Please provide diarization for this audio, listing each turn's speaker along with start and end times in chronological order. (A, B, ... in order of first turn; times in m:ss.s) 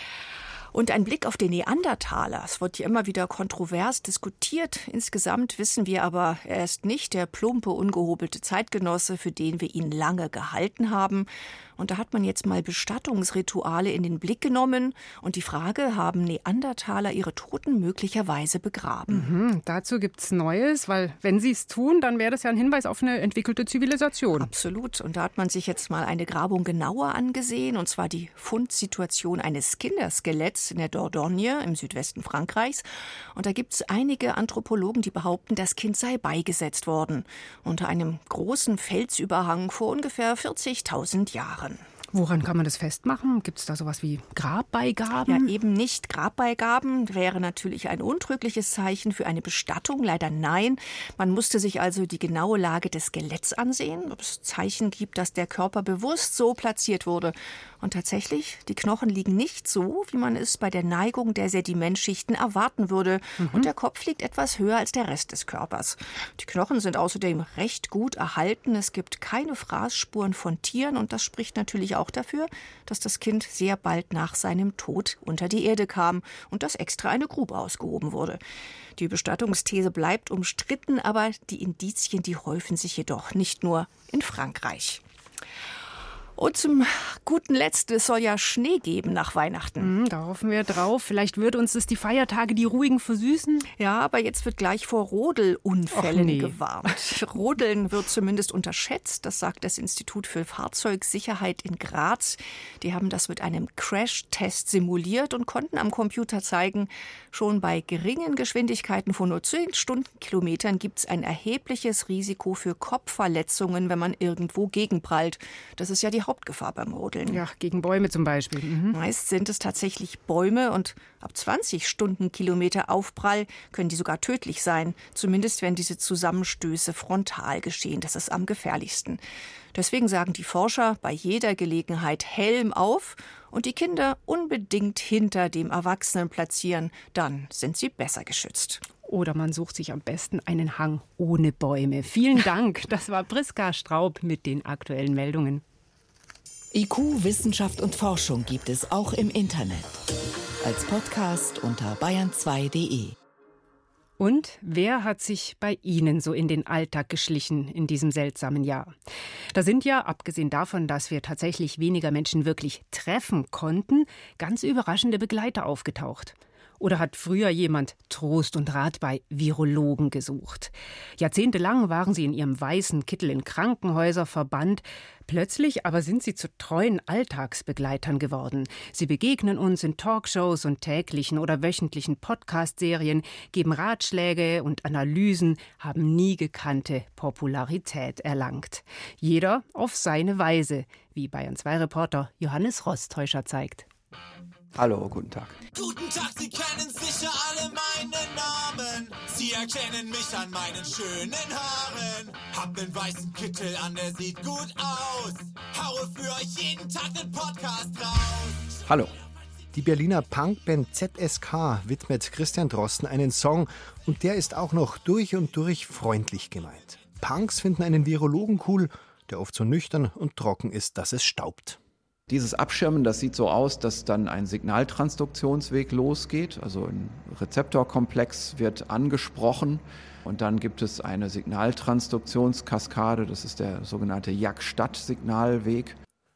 0:00.7-0:19.3 A
0:19.1-0:24.5 B
0:24.4-0:41.8 A
0:42.1-0:45.5 B
0:45.2-1:18.4 A
1:03.4-1:03.7 B
1:19.0-1:25.0 A
1:26.4-1:29.9 A
1:29.8-1:33.7 B
1:33.8-1:57.4 A
1:35.9-1:36.5 B
1:57.3-1:59.0 B
1:58.9-2:09.2 A
2:09.7-2:18.8 A
2:19.0-2:25.6 B
2:26.7-2:30.0 C
2:30.6-2:33.1 C
2:34.2-2:38.9 B
2:39.5-3:13.9 B
3:14.8-3:15.6 D
3:15.7-3:28.8 E
3:28.8-3:29.1 D
3:29.7-3:41.8 F
3:42.3-3:56.0 D